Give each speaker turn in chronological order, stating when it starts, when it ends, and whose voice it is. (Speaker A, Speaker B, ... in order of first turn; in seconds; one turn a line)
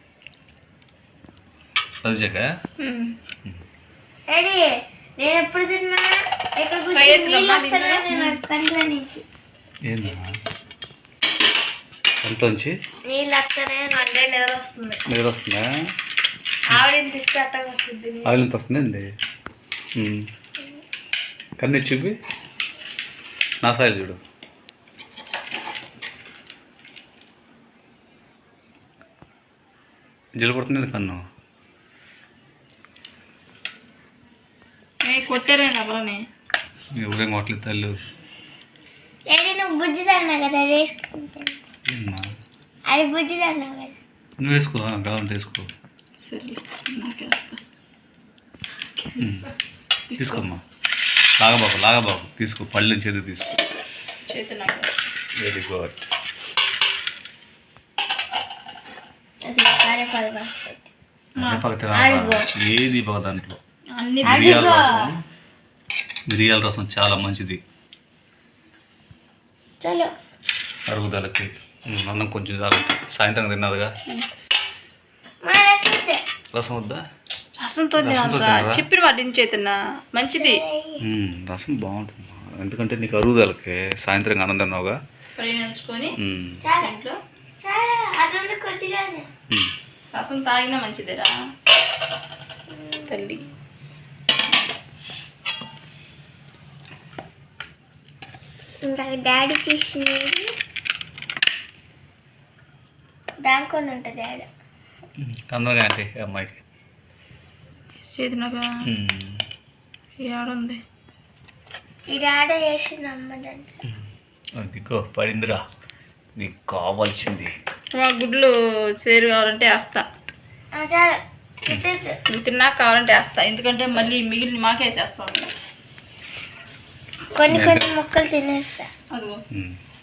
Speaker A: 2.0-2.5
Speaker B: 2.8-3.1
Speaker C: 4.3-9.2
Speaker B: 6.9-8.4
Speaker A: 9.9-10.4
Speaker A: 12.2-12.8
Speaker C: 13.1-15.0
Speaker A: 15.1-15.7
Speaker C: 16.7-18.3
Speaker A: 18.2-19.1
Speaker A: 20.0-20.3
Speaker A: 21.6-22.2
Speaker A: 23.6-24.2
Speaker A: 30.4-31.2
Speaker B: 35.0-36.2
Speaker A: 37.0-38.0
Speaker C: 39.3-41.7
Speaker A: 41.9-42.3
Speaker C: 42.9-44.0
Speaker A: 44.4-45.7
Speaker B: 46.2-47.6
Speaker B: 49.0-49.5
Speaker A: 49.2-49.5
Speaker B: 50.1-50.4
Speaker A: 50.2-50.6
Speaker A: 51.4-53.6
Speaker B: 54.3-54.9
Speaker A: 55.4-56.0
Speaker C: 59.5-60.9
Speaker B: 61.4-61.6
Speaker A: 61.4-63.6
Speaker C: 61.9-62.5
Speaker B: 64.0-64.9
Speaker C: 64.2-65.1
Speaker A: 64.2-65.2
Speaker A: 66.3-67.6
Speaker C: 69.8-70.1
Speaker A: 70.9-73.9
Speaker C: 75.4-76.2
Speaker A: 76.5-77.1
Speaker B: 77.6-80.6
Speaker A: 78.0-78.8
Speaker C: 80.3-81.0
Speaker A: 81.0-85.0
Speaker B: 85.4-86.2
Speaker A: 86.2-86.6
Speaker C: 86.6-87.0
Speaker B: 86.8-87.2
Speaker C: 87.6-89.3
Speaker B: 90.1-91.4
Speaker C: 92.7-93.4
Speaker B: 93.1-93.4
Speaker C: 98.8-100.5
Speaker C: 103.4-104.5
Speaker A: 105.2-106.6
Speaker B: 108.1-108.8
Speaker A: 108.8-109.4
Speaker B: 110.2-110.8
Speaker C: 112.1-113.7
Speaker A: 114.6-115.6
Speaker A: 116.4-117.5
Speaker B: 117.9-120.1
Speaker C: 120.7-122.2
Speaker B: 122.3-125.5
Speaker C: 127.3-128.9
Speaker A: 127.5-127.9
Speaker B: 129.1-129.4
Speaker A: 129.5-129.8